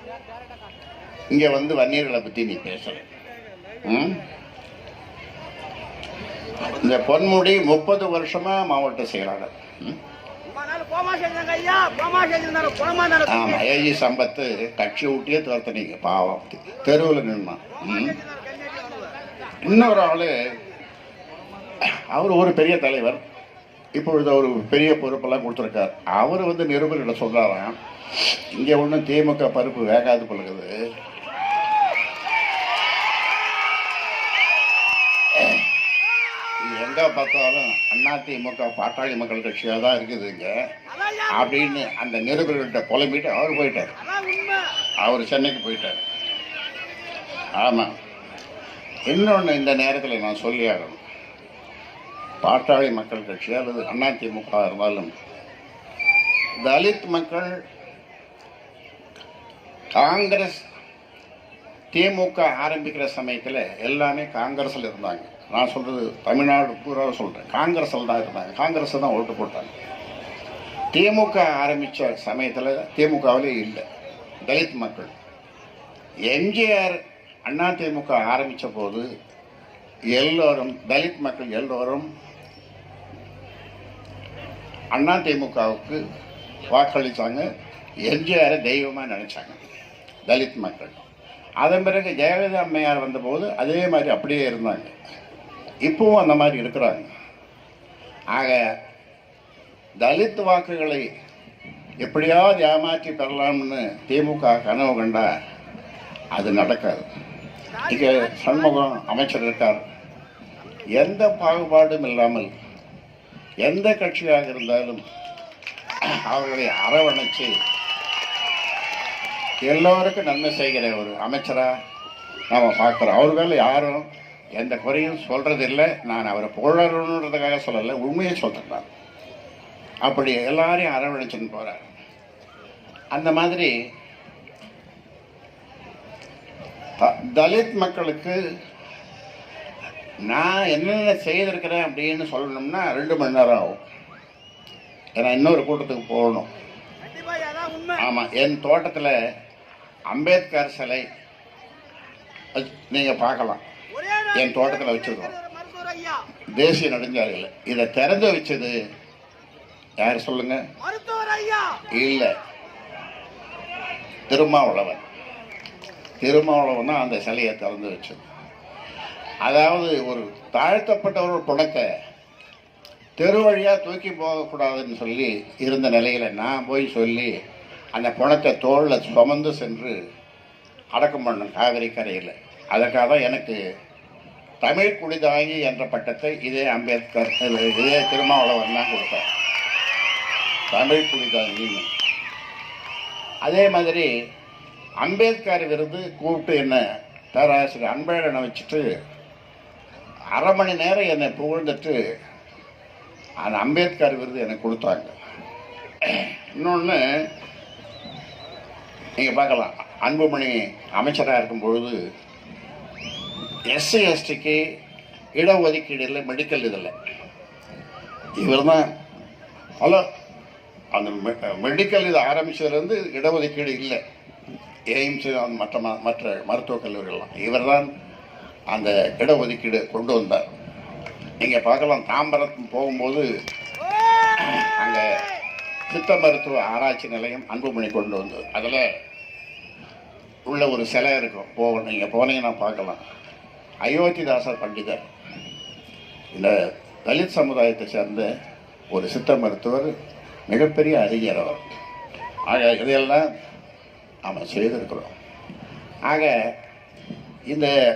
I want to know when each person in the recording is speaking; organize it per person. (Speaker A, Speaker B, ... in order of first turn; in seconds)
Speaker A: 1.3-3.0, 3.8-4.2, 6.6-10.0, 13.2-18.2, 19.6-20.3, 21.8-23.2, 24.0-30.7, 35.3-35.7, 36.6-40.5, 41.3-44.0, 45.0-46.0, 47.6-47.9, 49.0-51.0, 52.4-55.1, 56.6-57.5, 60.0-60.6, 61.9-69.7, 70.9-73.8, 74.5-75.1, 76.3-79.0, 80.1-82.1, 84.9-86.0, 86.7-87.5, 88.0-89.6, 90.2-91.0, 91.6-94.9, 95.8-97.1, 98.3-98.6, 100.0-101.0, 102.0-105.3, 106.3-107.1, 107.8-109.8, 110.9-112.5, 113.6-115.0, 116.0-117.5, 119.6-121.7, 122.5-128.8, 130.0-131.8, 133.1-133.7, 137.0-138.4, 140.2-143.8, 145.2-146.5, 147.9-149.1, 150.1-151.0, 152.5-153.6, 154.3-155.3, 156.5-158.7, 160.0-160.6, 161.9-162.3, 164.3-165.0, 166.2-168.2, 169.4-171.8, 173.2-177.3, 177.9-179.9, 180.9-183.6, 184.6-189.2, 190.7-191.8, 193.4-194.1, 195.0-196.8, 197.3-198.9, 200.3-202.0, 203.4-205.1, 206.0-207.0, 209.2-211.9, 213.7-214.6, 215.3-216.9, 218.4-218.9, 220.9-224.0, 224.9-227.9, 228.7-230.4, 231.4-233.2, 234.4-235.1, 235.9-238.8, 240.5-243.0, 243.8-245.1, 247.1-248.2, 248.9-249.9, 250.5-251.7, 252.5-253.2, 254.3-255.1, 256.1-256.3
Speaker B: 10.5-13.2, 18.5-19.1, 44.1-44.6, 147.1-147.9, 155.5-156.2, 160.9-161.8